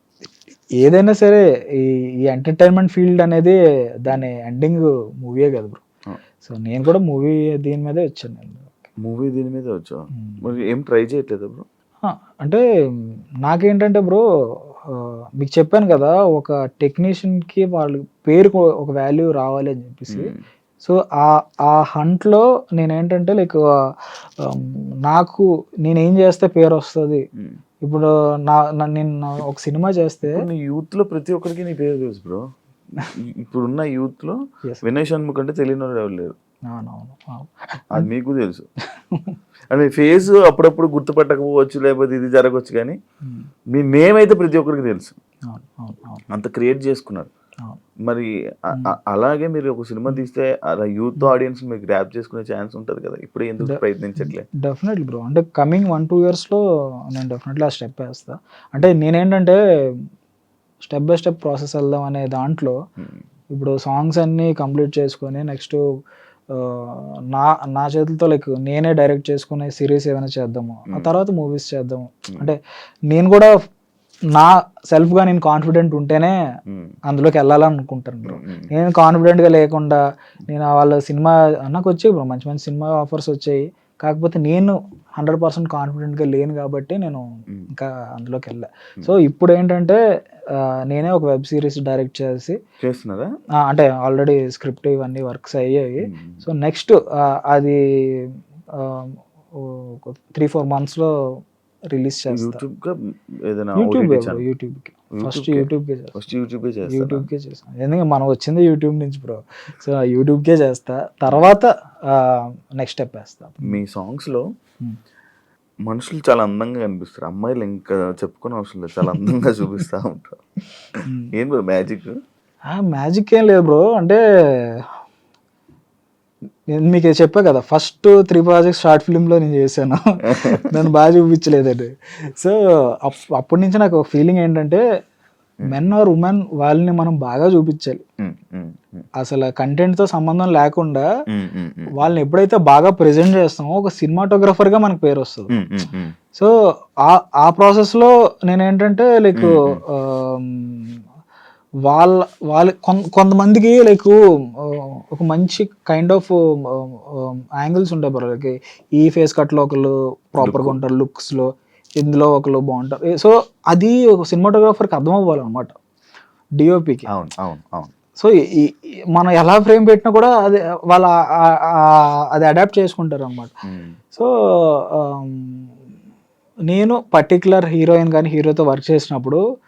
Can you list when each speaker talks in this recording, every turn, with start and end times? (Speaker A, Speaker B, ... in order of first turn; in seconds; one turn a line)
Speaker A: 0.8-5.8
Speaker A: 6.4-8.8
Speaker B: 9.0-11.7
Speaker A: 10.2-10.4
Speaker A: 12.0-27.2
Speaker B: 20.1-20.4
Speaker A: 27.8-30.4
Speaker B: 30.3-32.4
Speaker B: 33.4-36.3
Speaker A: 36.7-38.1
Speaker B: 37.9-38.7
Speaker A: 39.1-39.4
Speaker B: 39.7-43.0
Speaker A: 43.2-43.5
Speaker B: 43.7-45.1
Speaker A: 45.5-46.2
Speaker B: 46.3-47.3
Speaker B: 48.0-54.5
Speaker A: 53.6-60.0
Speaker A: 60.8-62.8
Speaker A: 63.5-65.8
Speaker A: 66.5-72.6
Speaker B: 70.9-71.2
Speaker A: 73.1-73.5
Speaker A: 74.3-76.3
Speaker B: 76.7-76.9
Speaker A: 77.1-90.0
Speaker B: 78.2-78.7
Speaker A: 90.5-92.6
Speaker B: 92.8-93.3
Speaker A: 93.6-101.1
Speaker B: 96.0-96.4
Speaker A: 101.9-102.6
Speaker B: 102.3-103.0
Speaker B: 103.5-104.4
Speaker A: 103.8-106.2
Speaker B: 105.2-107.3
Speaker A: 106.9-113.8
Speaker B: 111.3-111.5
Speaker B: 113.6-114.5
Speaker B: 115.9-120.4
Speaker B: 120.9-122.1
Speaker A: 121.0-121.3
Speaker A: 122.7-124.9
Speaker A: 126.7-134.8
Speaker B: 130.3-130.7
Speaker A: 135.6-138.0
Speaker B: 138.2-139.1
Speaker A: 139.2-141.0
Speaker B: 141.3-141.9
Speaker A: 141.9-145.5
Speaker B: 145.5-146.1
Speaker A: 147.0-151.0
Speaker B: 149.3-149.8
Speaker A: 151.9-165.8
Speaker B: 160.4-160.8
Speaker A: 166.6-167.1
Speaker B: 167.1-167.9
Speaker A: 168.2-173.5
Speaker B: 173.7-174.0
Speaker A: 174.1-175.7
Speaker A: 176.7-179.4